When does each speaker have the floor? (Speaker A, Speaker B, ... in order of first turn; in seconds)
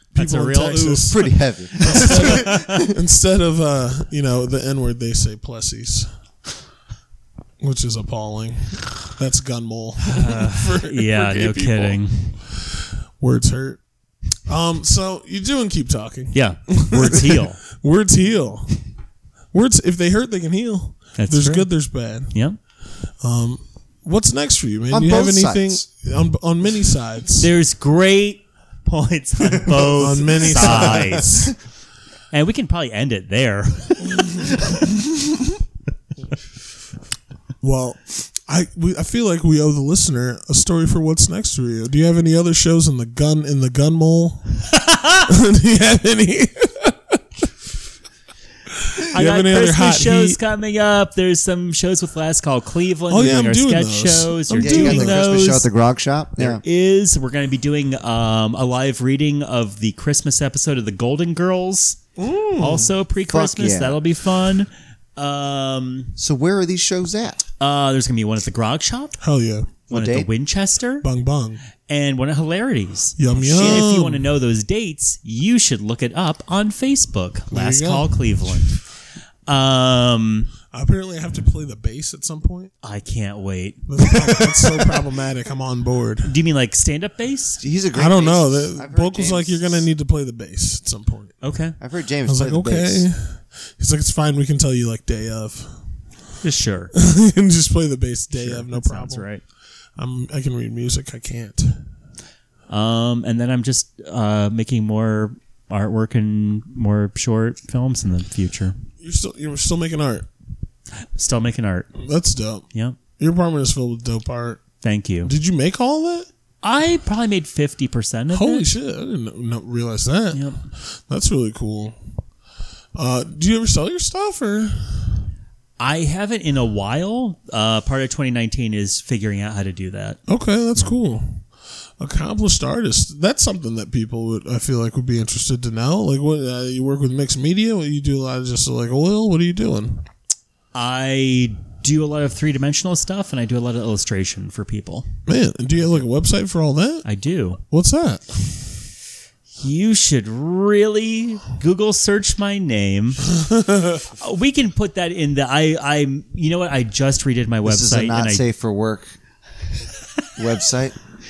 Speaker A: 0.1-1.3, 1.8-6.1, 7.6-13.8, 14.5-18.8, 19.5-22.4, 23.2-27.5, 30.0-31.5, 37.6-44.5, 45.3-47.2, 48.8-50.4, 53.1-55.2, 62.2-62.9, 69.2-69.8, 71.0-71.6, 73.2-74.3, 77.5-78.8, 80.7-82.7, 83.9-86.3, 88.0-91.4, 92.3-95.8, 97.0-99.3, 100.0-101.8, 109.0-110.3, 112.0-112.7, 113.2-114.7, 115.2-116.3, 118.3-122.0, 123.0-125.2, 130.3-131.4, 132.0-140.1, 145.3-147.1, 147.6-148.7, 153.4-154.0
Speaker B: 0.1-1.2, 1.8-2.7, 10.1-12.4, 16.3-17.6, 21.2-21.7, 22.3-22.6, 27.4-31.5, 32.3-34.6, 44.7-45.3, 49.1-55.7, 56.4-62.0, 62.6-66.2, 67.6-69.2, 69.9-71.1, 71.9-78.8, 79.5-80.5, 82.8-83.8, 86.2-87.6, 91.4-91.8, 96.4-96.9, 98.3-99.4, 102.7-108.8, 111.2-111.9, 114.8-115.3, 116.6-118.7, 120.3-120.6, 125.8-130.2, 140.7-145.1, 147.1-147.6, 149.6-153.4, 154.1-158.4
Speaker C: 1.1-2.9, 24.9-25.8, 30.5-31.5, 54.6-56.6, 63.3-64.0, 66.2-67.4, 69.9-70.3, 73.5-73.9, 87.6-89.9, 91.8-93.1, 157.7-159.2, 160.4-161.0